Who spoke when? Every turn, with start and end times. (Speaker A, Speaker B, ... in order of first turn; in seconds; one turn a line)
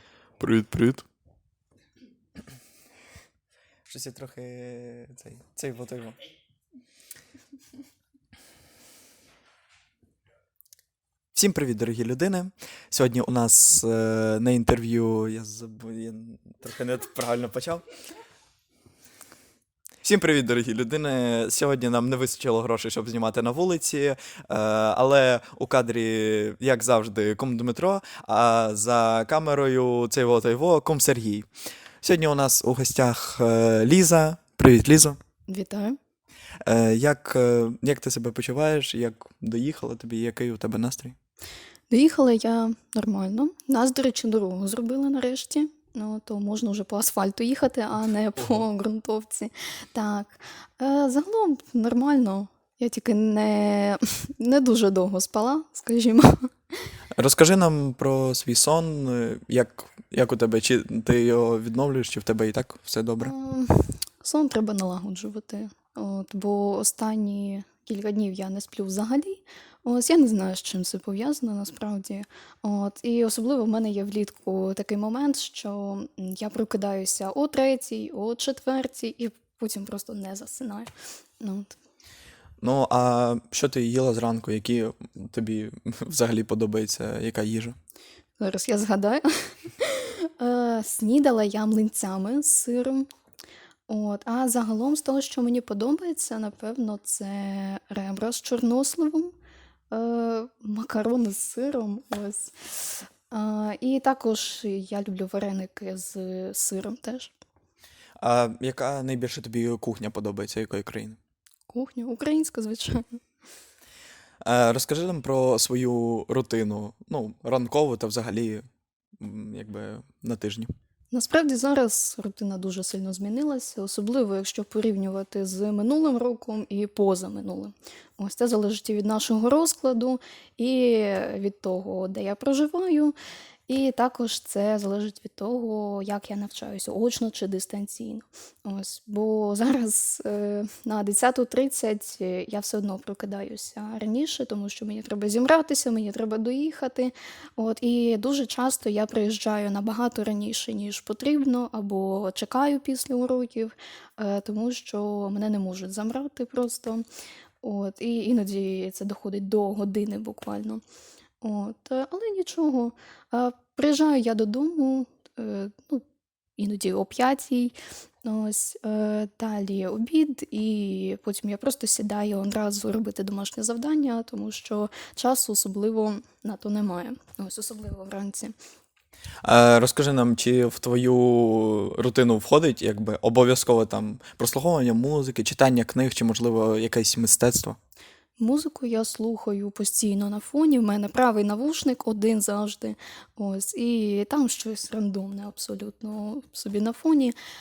Speaker A: 0.4-1.0
Speaker A: 3.9-6.2
Speaker A: 11.3-17.8
Speaker A: 20.0-31.5
Speaker A: 32.0-35.2
Speaker B: 35.5-36.0
Speaker A: 36.6-41.1
Speaker B: 41.9-56.5
Speaker A: 57.1-63.3
Speaker B: 63.2-81.8
Speaker A: 82.6-87.8
Speaker B: 88.4-93.1
Speaker B: 93.9-99.3
Speaker B: 99.9-107.3
Speaker A: 108.2-111.2
Speaker B: 111.7-113.2
Speaker A: 114.4-118.6
Speaker A: 119.2-120.7
Speaker B: 121.1-133.1
Speaker B: 133.7-157.0
Speaker B: 157.6-160.8
Speaker B: 161.4-166.0
Speaker B: 166.6-178.5
Speaker A: 179.4-187.8
Speaker B: 188.4-197.3